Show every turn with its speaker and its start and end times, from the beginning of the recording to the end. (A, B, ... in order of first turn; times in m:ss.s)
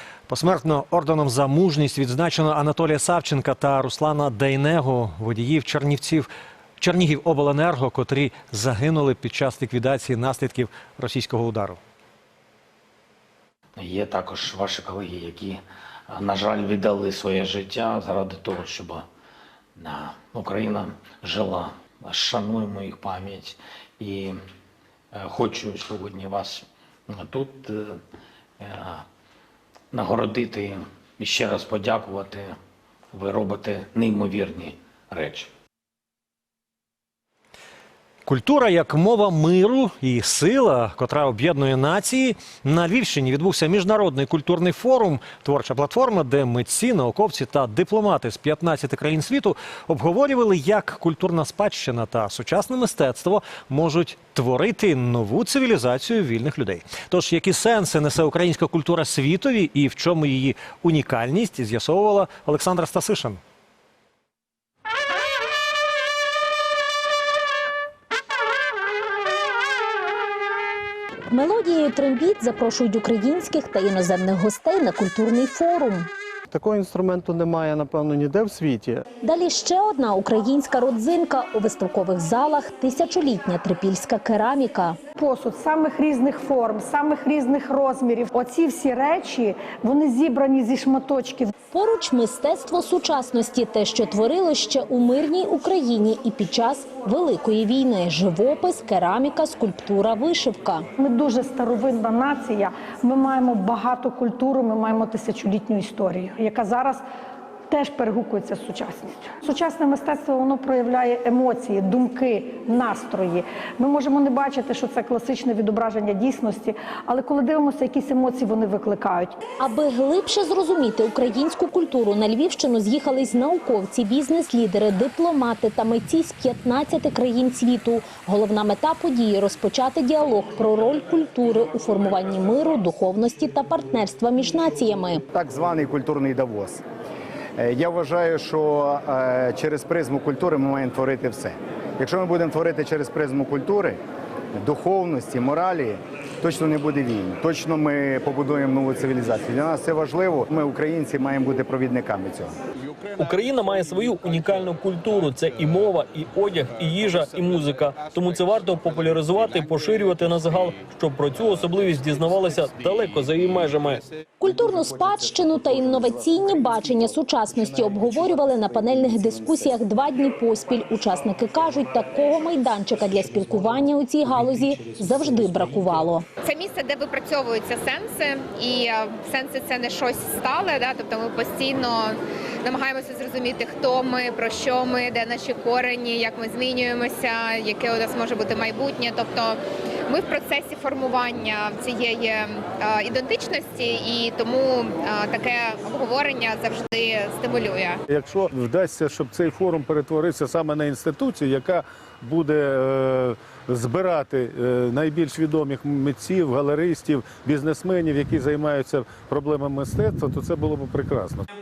0:00.3-0:06.3 A
0:06.8-0:11.8 A
0:13.8-0:19.0 B
0:19.8-0:24.4 B
0:25.1-0:28.0 B
0:28.6-0:29.0 B
0:29.9-0:32.6 B
0:33.1-0:35.5 B
0:38.2-1:03.4 A
1:11.3-1:16.1 C
1:16.5-1:19.0 D
1:19.2-1:25.0 C
1:25.2-1:31.5 E
1:31.7-1:40.8 C
1:41.0-1:47.0 E
1:47.7-1:59.4 E
1:59.6-2:15.2 C
2:15.3-2:16.8 F
2:17.6-2:24.0 F
2:24.5-2:32.6 F
2:33.2-2:44.0 G
2:44.4-2:56.2 C
2:56.5-3:09.6 H
3:10.1-3:17.9 H
3:18.1-3:31.4 I